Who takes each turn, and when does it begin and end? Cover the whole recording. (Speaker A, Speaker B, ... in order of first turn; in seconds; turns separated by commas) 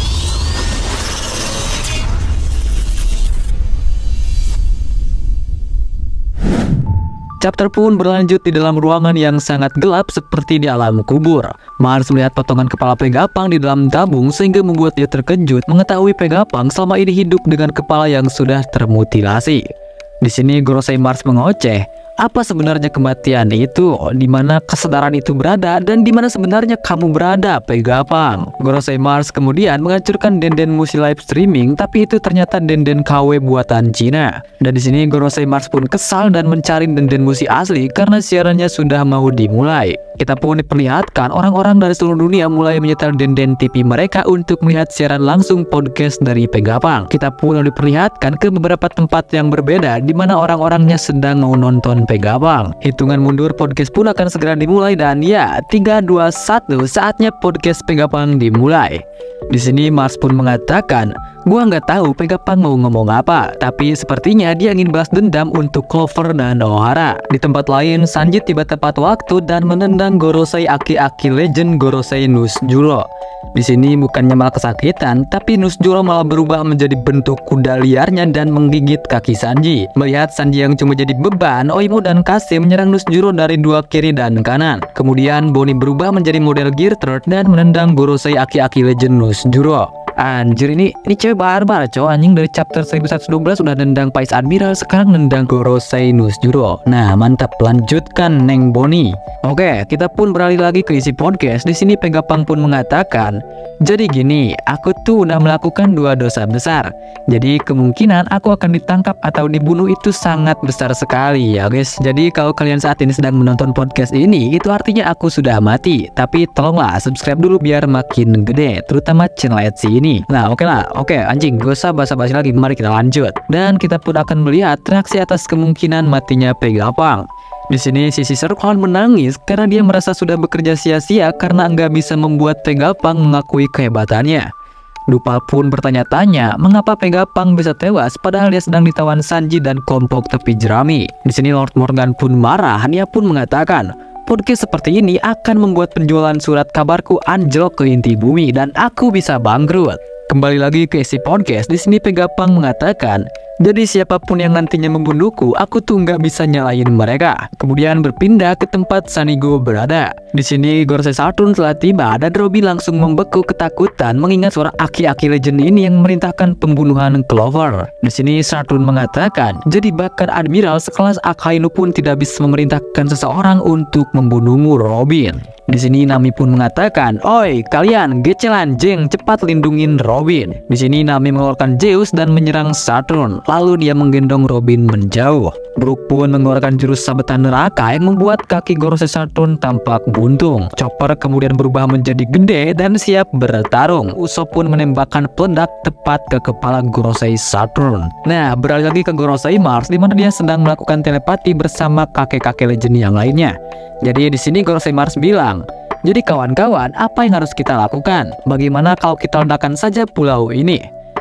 Speaker A: 7.4-19.6, Speaker A: 20.2-134.5, Speaker A: 135.1-210.8